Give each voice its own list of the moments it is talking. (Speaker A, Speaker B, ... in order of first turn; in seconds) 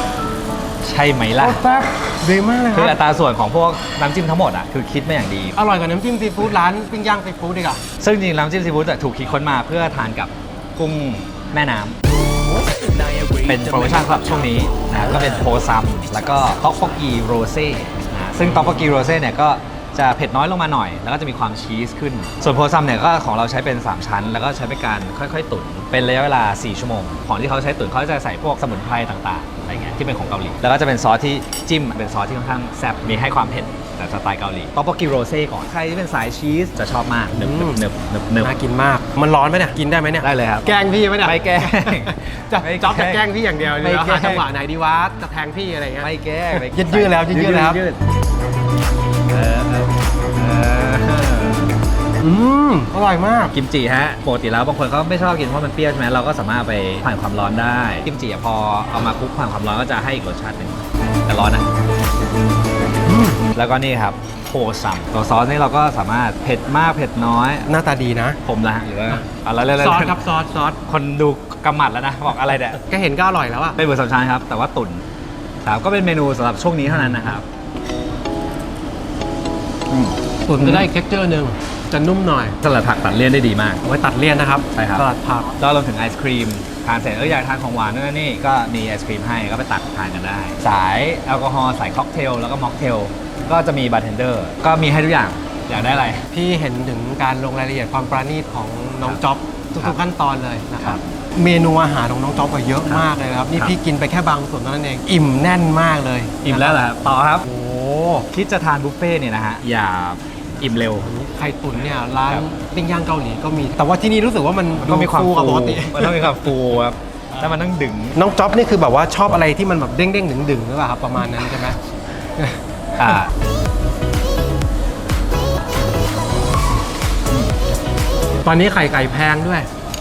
Speaker A: 0.8-1.6, 2.7-5.6, 8.0-12.0, 13.4-38.5, 40.2-44.5, 46.0-48.0, 49.3-51.7, 53.5-61.7, 63.5-67.7, 68.4-70.2, 70.9-72.8, 73.8-75.0, 75.6-77.5, 79.9-80.9, 82.6-83.8, 84.7-85.1, 85.6-96.3, 100.8-101.1, 106.5-107.5, 108.3-111.1, 114.8-118.2, 123.0-123.3
Speaker B: 1.4-3.0, 5.5-7.8, 37.3-37.8, 38.4-47.8, 52.2-53.5, 63.1-63.4, 67.7-68.4, 69.8-70.8, 72.8-73.8, 80.5-82.6, 83.8-85.5, 96.3-106.8, 107.4-108.3, 111.0-116.3, 118.1-121.8, 128.4-129.7